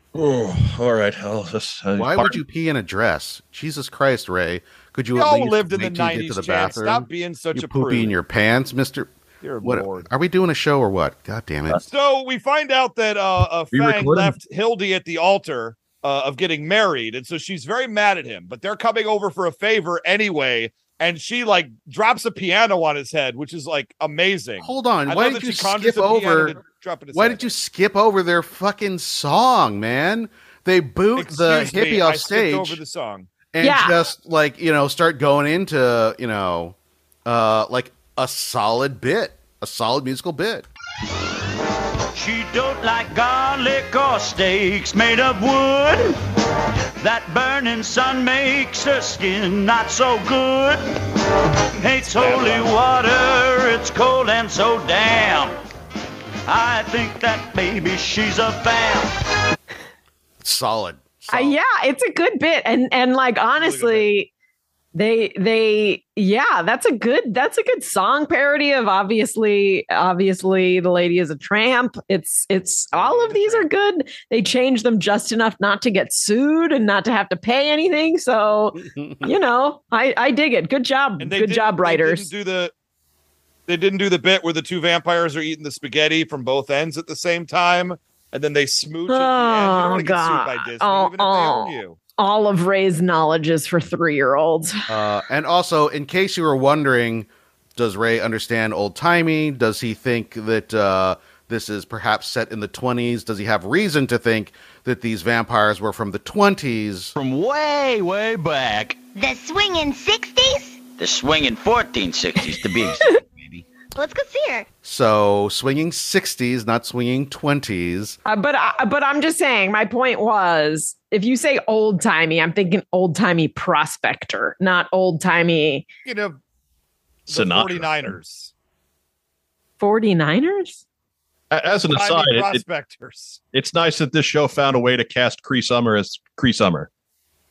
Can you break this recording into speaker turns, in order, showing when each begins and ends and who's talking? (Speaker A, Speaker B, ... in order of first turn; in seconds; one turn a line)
Speaker A: 0.1-2.4
Speaker B: 2.0-11.8
Speaker C: 5.2-8.1
Speaker C: 9.4-10.1
Speaker C: 11.8-27.5
Speaker A: 13.7-14.4
Speaker B: 24.6-26.6
Speaker B: 27.1-32.8
Speaker C: 31.2-33.3
Speaker B: 33.5-40.7
Speaker D: 33.6-34.0
Speaker E: 42.1-46.1
Speaker E: 47.0-50.8
Speaker E: 51.8-55.6
Speaker C: 52.1-52.7
Speaker E: 56.5-59.1
Speaker B: 60.4-61.6
Speaker D: 61.3-64.3
Speaker C: 63.6-64.1
Speaker D: 64.9-82.3
Speaker C: 72.9-73.7
Speaker B: 78.8-79.3
Speaker C: 81.2-82.7
Speaker C: 83.7-92.0
Speaker D: 89.1-94.8
Speaker B: 94.9-107.1
Speaker E: 107.2-109.0
Speaker F: 109.1-110.8
Speaker E: 111.0-113.6
Speaker F: 114.0-114.7
Speaker B: 114.8-118.2
Speaker D: 118.3-125.8
Speaker C: 126.0-126.4
Speaker C: 127.3-128.5
Speaker A: 127.3-128.1
Speaker D: 129.8-130.8
Speaker A: 131.5-132.6
Speaker C: 131.7-133.4
Speaker A: 133.5-136.9